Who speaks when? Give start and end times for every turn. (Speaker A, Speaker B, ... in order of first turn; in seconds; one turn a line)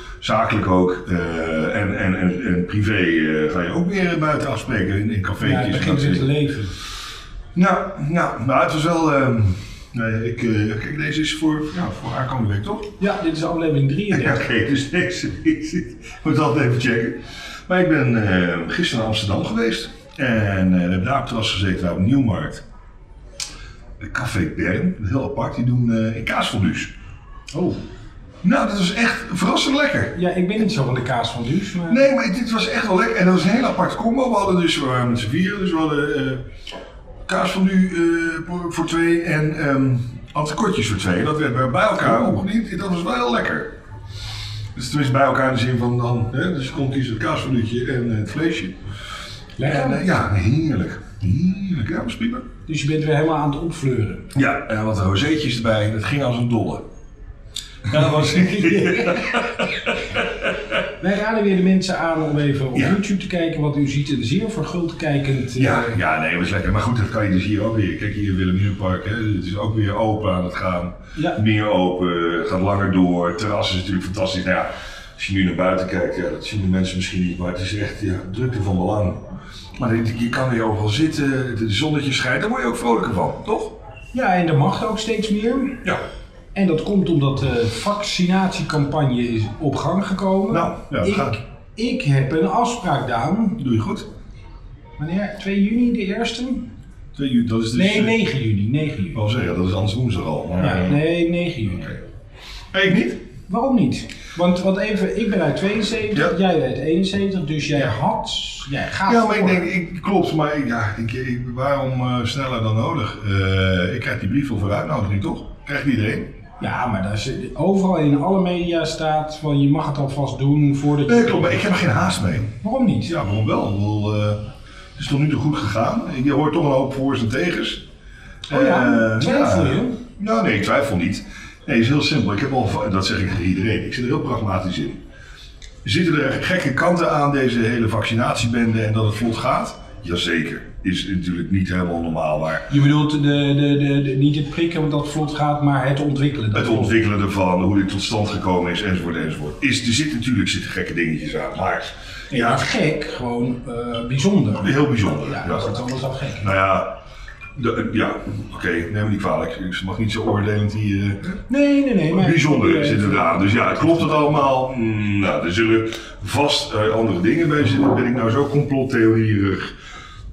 Speaker A: 0.2-6.3
Speaker B: 5.4-6.8
Speaker A: 7.5-12.9
Speaker B: 13.0-14.4
Speaker A: 14.1-22.6
Speaker A: 24.0-26.9
Speaker B: 27.5-27.8
Speaker A: 28.4-30.2
Speaker B: 30.1-32.1
Speaker A: 31.9-36.5
Speaker A: 37.3-43.7
Speaker A: 44.8-48.8
Speaker B: 49.6-50.1
Speaker A: 49.6-52.5
Speaker B: 52.7-54.3
Speaker A: 54.4-56.8
Speaker A: 57.9-60.5
Speaker B: 58.2-59.5
Speaker B: 61.0-66.0
Speaker A: 65.6-79.2
Speaker A: 79.8-83.8
Speaker B: 84.1-85.8
Speaker B: 86.5-93.6
Speaker A: 90.5-91.4
Speaker A: 93.6-94.1
Speaker B: 95.0-96.7
Speaker A: 97.2-98.2
Speaker B: 97.7-99.2
Speaker A: 99.1-101.0
Speaker B: 100.6-102.0
Speaker A: 102.7-103.2
Speaker B: 103.5-109.6
Speaker A: 109.1-116.3
Speaker B: 116.6-121.8
Speaker A: 121.1-122.5
Speaker B: 122.6-123.2
Speaker A: 123.1-127.8
Speaker A: 128.5-135.0
Speaker B: 128.5-130.0
Speaker A: 135.8-142.7
Speaker B: 142.7-147.0
Speaker A: 146.5-152.7
Speaker B: 152.3-154.7
Speaker A: 154.6-155.7
Speaker B: 155.2-156.5
Speaker A: 156.4-157.0
Speaker A: 157.6-161.4
Speaker B: 161.5-164.3
Speaker A: 162.1-169.7